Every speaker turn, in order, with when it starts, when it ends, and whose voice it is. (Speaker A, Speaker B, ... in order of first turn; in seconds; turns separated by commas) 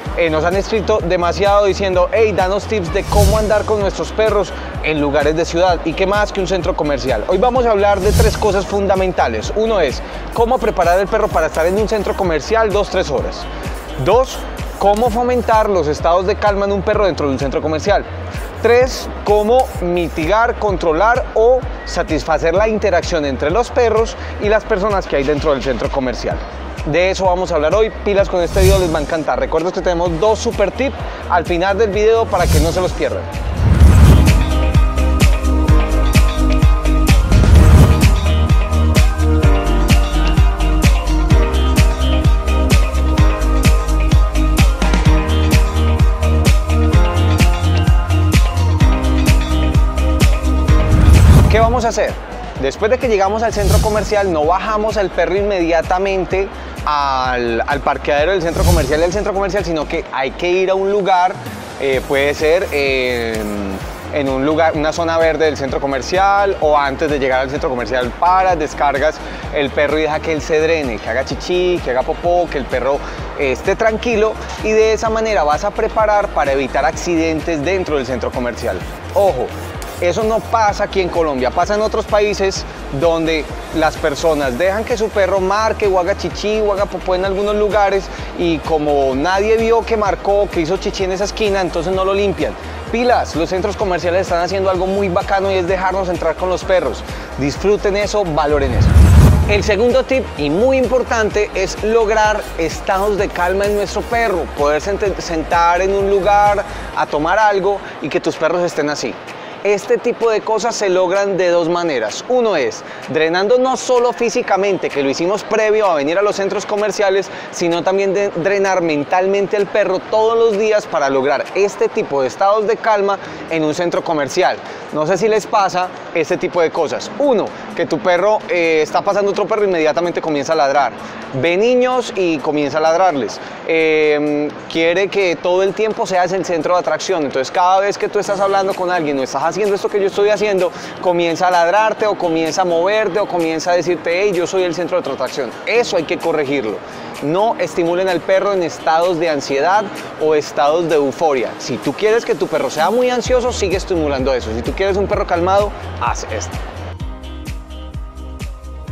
Speaker A: 0.2-13.5, Speaker A: 14.0-18.1, Speaker A: 18.6-33.3, Speaker A: 51.5-98.9, Speaker A: 99.5-156.6